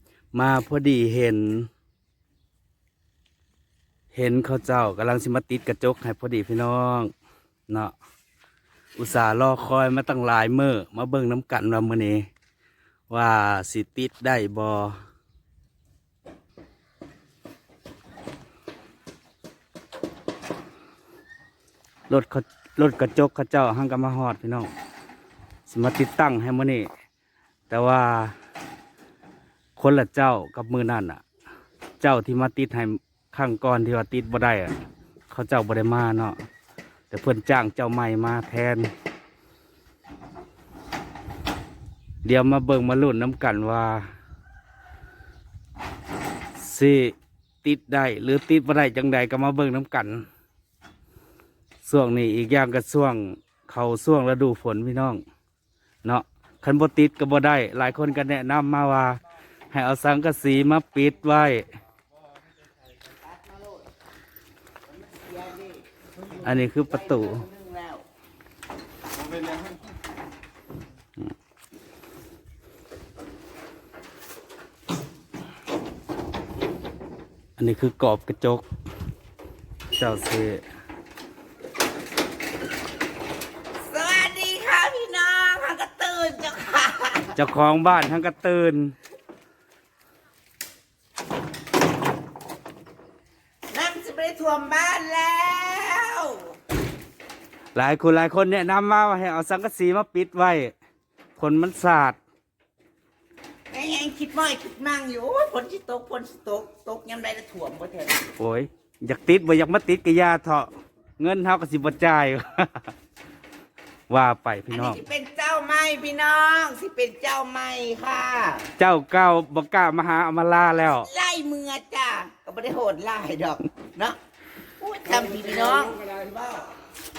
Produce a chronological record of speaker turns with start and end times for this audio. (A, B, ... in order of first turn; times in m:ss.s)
0:00.3-0:01.7 A
0:04.1-0:07.1 A
0:07.7-0:07.9 A
0:09.0-0:12.3 A
0:13.1-0:15.0 A
0:22.1-0:24.7 A
0:25.7-0:26.9 A
0:27.7-0:28.3 A
0:29.8-0:31.2 A
0:32.0-0:34.7 A
0:35.3-0:36.4 A
0:37.1-0:38.9 A
0:42.2-0:44.0 A
0:46.6-0:50.2 A
0:51.8-0:55.2 A
0:56.0-0:59.2 A
0:59.7-1:01.6 A
1:03.0-1:03.8 B
1:04.9-1:05.8 B
1:06.4-1:08.0 B
1:06.4-1:07.4 A
1:17.6-1:18.6 A
1:20.0-1:20.6 A
1:23.8-1:27.3 B
1:27.3-1:28.9 A
1:33.7-1:36.5 B
1:37.7-1:40.7 A
1:41.4-1:42.2 A
1:43.7-1:48.2 B
1:48.4-1:52.9 A
1:54.1-1:55.0 A
1:54.7-1:58.7 B
1:58.8-2:01.1 A
2:00.9-2:04.2 B
2:04.8-2:06.7 B